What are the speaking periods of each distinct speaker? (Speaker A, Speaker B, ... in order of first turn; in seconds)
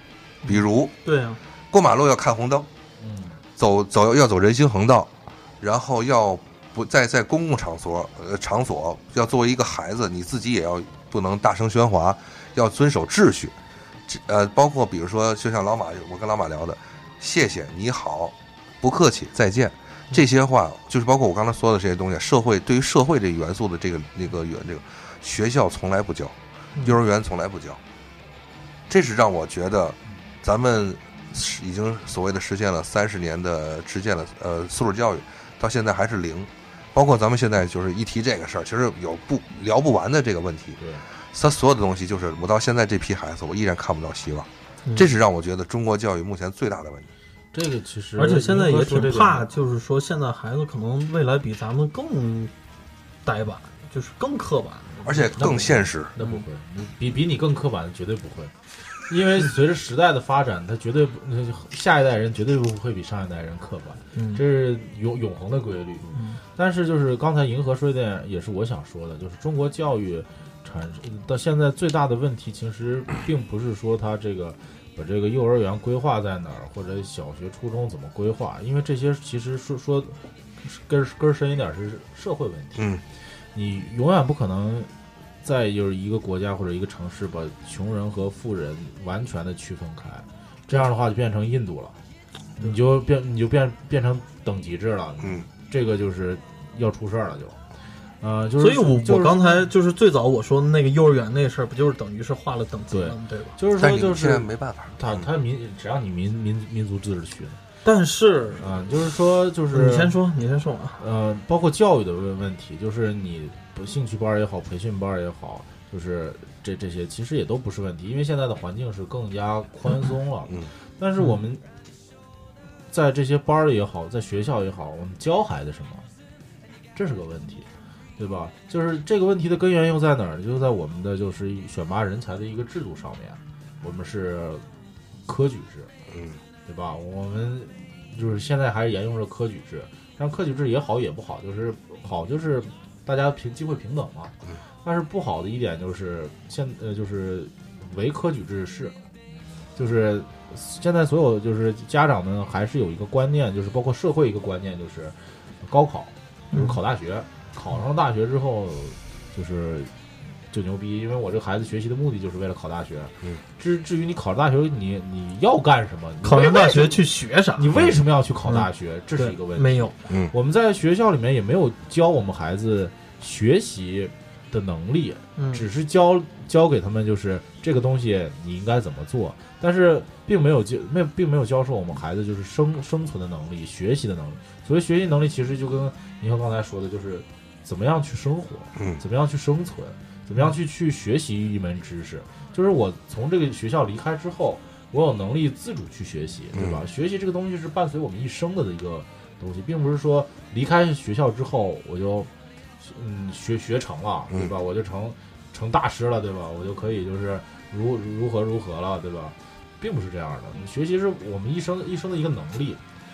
Speaker A: 0.4-1.4, 48.2-52.5, 53.2-55.6, 56.2-56.4, 64.2-64.4, 98.6-103.6, 107.8-108.8, 109.7-111.0, 156.5-156.8, 166.2-167.7, 168.5-169.9, 175.4-175.6
Speaker B: 0.5-1.0, 1.7-2.7, 3.6-13.6, 14.1-27.8, 28.9-47.1, 55.0-56.1, 82.8-83.0, 103.8-105.3, 136.1-136.4, 170.1-170.3, 196.6-196.8
Speaker C: 3.0-3.4, 40.8-41.0, 47.5-49.5, 55.4-82.9, 83.5-84.9, 85.4-92.0, 92.6-97.6, 98.2-99.7, 102.9-107.6, 108.6-110.2, 111.0-121.6, 122.9-126.1, 127.0-134.6, 135.3-135.9, 136.7-148.9, 149.8-159.9, 160.5-202.3, 202.8-212.8